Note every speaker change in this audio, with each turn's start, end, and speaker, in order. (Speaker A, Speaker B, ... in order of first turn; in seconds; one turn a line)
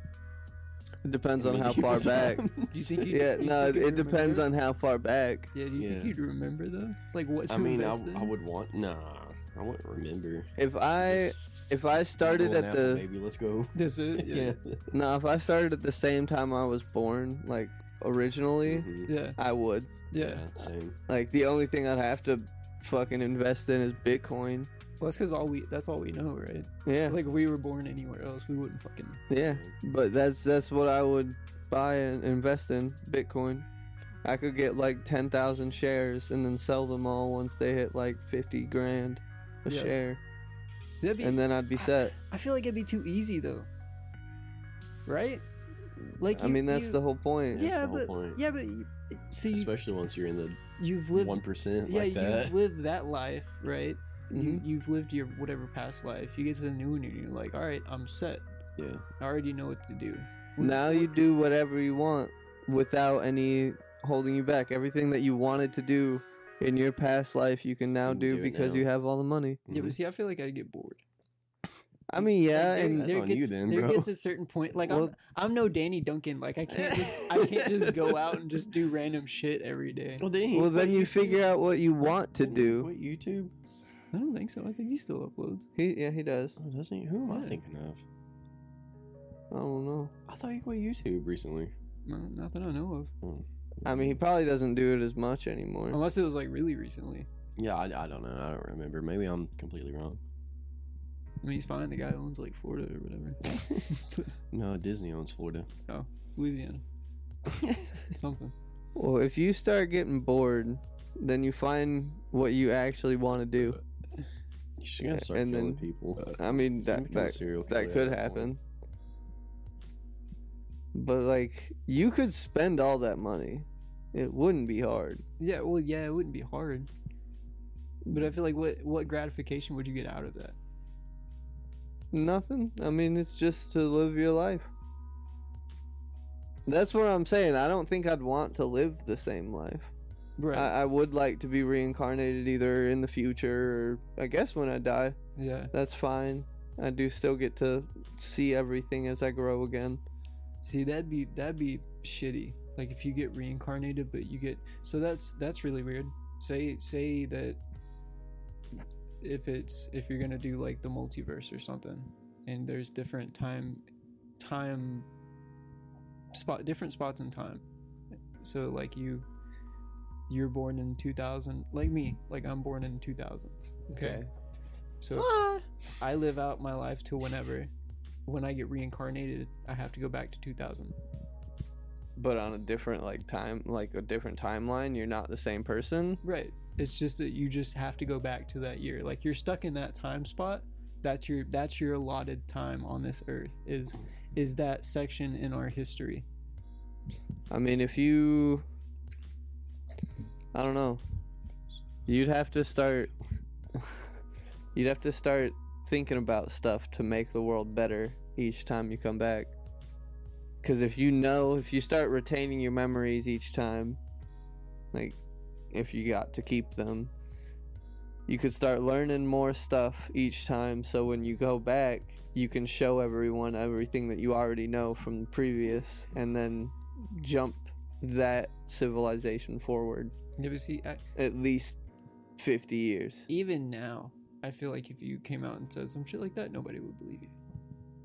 Speaker A: 1.0-2.5
Speaker B: 1.4-3.2
Speaker C: 2.7-4.5
Speaker A: 3.1-5.5
Speaker C: 5.5-8.3
Speaker B: 5.8-6.2
Speaker B: 7.5-11.4
Speaker A: 10.6-13.0
Speaker B: 12.2-14.9
Speaker C: 13.8-14.6
Speaker A: 14.9-20.0
Speaker B: 18.6-19.1
Speaker C: 19.1-19.4
Speaker C: 20.1-20.4
Speaker B: 20.2-21.0
Speaker A: 21.1-24.7
Speaker C: 25.0-29.2
Speaker A: 26.9-27.2
Speaker A: 29.3-33.7
Speaker B: 29.4-29.7
Speaker A: 34.2-40.2
Speaker C: 39.7-40.0
Speaker C: 40.9-43.7
Speaker A: 41.2-42.1
Speaker C: 45.1-45.5
Speaker C: 46.2-47.0
Speaker A: 46.2-47.7
Speaker B: 47.5-48.4
Speaker C: 47.5-49.7
Speaker B: 49.5-52.6
Speaker C: 50.8-58.5
Speaker A: 54.3-54.6
Speaker B: 58.8-59.0
Speaker C: 59.2-61.1
Speaker A: 60.6-69.6
Speaker B: 67.8-68.9
Speaker B: 69.7-70.0
Speaker C: 69.7-71.0
Speaker A: 72.1-73.1
Speaker C: 72.1-80.3
Speaker B: 72.9-74.1
Speaker A: 74.9-75.1
Speaker B: 76.7-78.3
Speaker B: 80.2-81.5
Speaker A: 80.5-82.9
Speaker B: 82.4-83.5
Speaker C: 84.1-85.7
Speaker A: 85.8-86.6
Speaker B: 86.6-88.0
Speaker C: 87.3-87.6
Speaker A: 89.5-90.1
Speaker B: 90.3-91.7
Speaker C: 92.0-93.1
Speaker B: 93.2-94.2
Speaker A: 93.8-96.0
Speaker C: 95.9-97.3
Speaker B: 97.6-100.2
Speaker C: 101.4-104.3
Speaker B: 104.5-105.7
Speaker C: 105.9-106.8
Speaker C: 108.1-108.5
Speaker A: 109.0-113.8
Speaker B: 114.8-118.5
Speaker A: 115.1-118.6
Speaker A: 120.9-125.2
Speaker C: 125.4-126.9
Speaker C: 128.1-130.6
Speaker A: 132.1-134.7
Speaker A: 136.7-139.9
Speaker C: 140.4-140.7
Speaker A: 140.5-145.2
Speaker C: 145.4-145.7
Speaker A: 145.7-150.0
Speaker C: 150.6-157.6
Speaker C: 159.2-163.8
Speaker C: 164.4-165.1
Speaker C: 166.3-167.6
Speaker C: 168.4-169.3
Speaker C: 170.3-174.2
Speaker A: 173.9-174.3
Speaker C: 175.0-175.3
Speaker B: 175.2-175.6
Speaker C: 176.0-177.7
Speaker C: 178.3-181.0
Speaker A: 182.2-186.2
Speaker C: 186.2-196.3
Speaker A: 197.5-198.7
Speaker A: 200.5-201.0
Speaker A: 202.1-203.1
Speaker A: 204.8-209.5
Speaker A: 210.6-214.0
Speaker A: 215.7-217.1
Speaker A: 218.3-230.1
Speaker C: 230.4-231.0
Speaker A: 231.2-231.8
Speaker A: 232.4-233.3
Speaker C: 233.3-237.3